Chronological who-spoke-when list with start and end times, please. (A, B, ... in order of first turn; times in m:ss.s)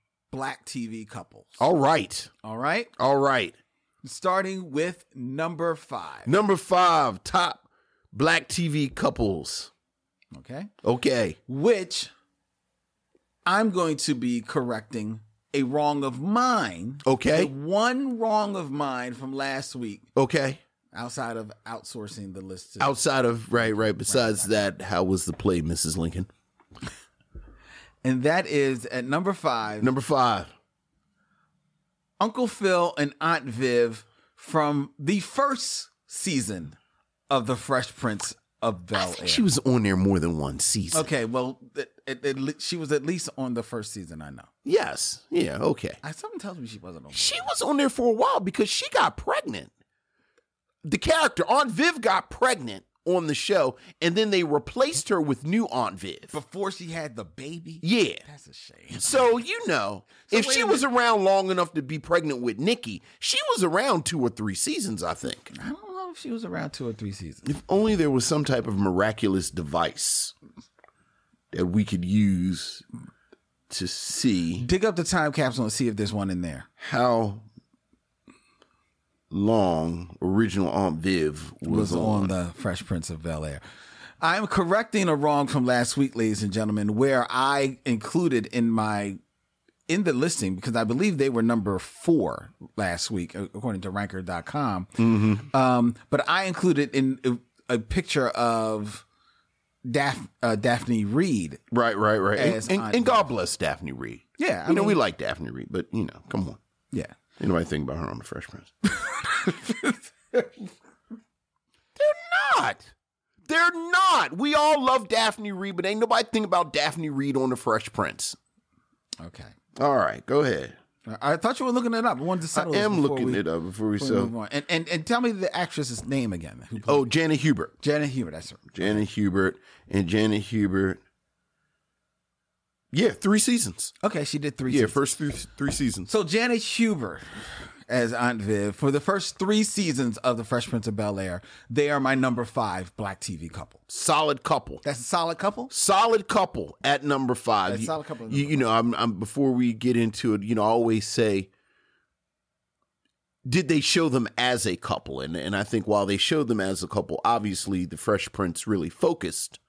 0:00.3-0:01.6 A
0:01.6-0:02.3 B
0:02.4-0:02.9 A
0:03.0-0:03.6 B
0:04.0-0:06.3 A
0:06.2-0:09.7 B
0:10.3-0:10.7 A
0:10.8-0:11.4 B
0:11.5-0:12.1 A
0:13.4-0:20.1 A
0:17.0-0:17.5 B
0:20.1-0:20.6 B
0:20.9-0:23.0 A
0:22.8-0:26.3 B
0:23.5-0:24.7 A
0:28.0-0:29.9 A
0:29.8-0:30.5 B
0:32.2-0:36.8 A
0:37.3-0:39.4 A
0:38.9-0:41.1 B
0:40.9-0:44.5 A
0:44.6-0:46.0 B
0:46.0-0:47.5 A
0:47.1-0:49.7 B
0:50.8-0:56.3 B
0:56.3-0:59.2 A
0:57.8-0:58.2 B
0:59.0-1:05.5 B
1:00.2-1:00.8 A
1:05.5-1:07.5 A
1:07.4-1:10.3 B
1:11.5-1:12.8 B
1:13.7-1:14.6 B
1:14.6-1:16.7 A
1:16.8-1:17.4 B
1:19.3-1:22.3 B
1:21.7-1:23.6 A
1:24.2-1:29.2 A
1:29.9-1:34.9 A
1:35.0-1:35.5 B
1:35.5-1:39.0 A
1:39.8-1:41.6 A
1:41.7-1:46.6 B
1:42.4-1:43.3 A
1:44.4-1:45.0 A
1:47.4-1:48.7 B
1:49.4-1:50.5 A
1:52.0-1:52.9 B
1:53.4-1:58.4 B
1:59.2-1:59.5 A
1:59.8-2:00.8 B
2:01.0-2:03.4 A
2:02.5-2:04.3 B
2:04.0-2:07.1 A
2:06.8-2:07.7 B
2:07.8-2:09.0 A
2:08.7-2:11.0 B
2:12.9-2:13.9 B
2:14.0-2:15.0 A
2:14.7-2:16.1 B
2:16.1-2:17.2 A
2:17.9-2:23.8 A
2:23.9-2:24.8 B
2:24.8-2:25.7 A
2:25.7-2:31.5 B
2:27.7-2:28.6 A
2:33.4-2:39.6 B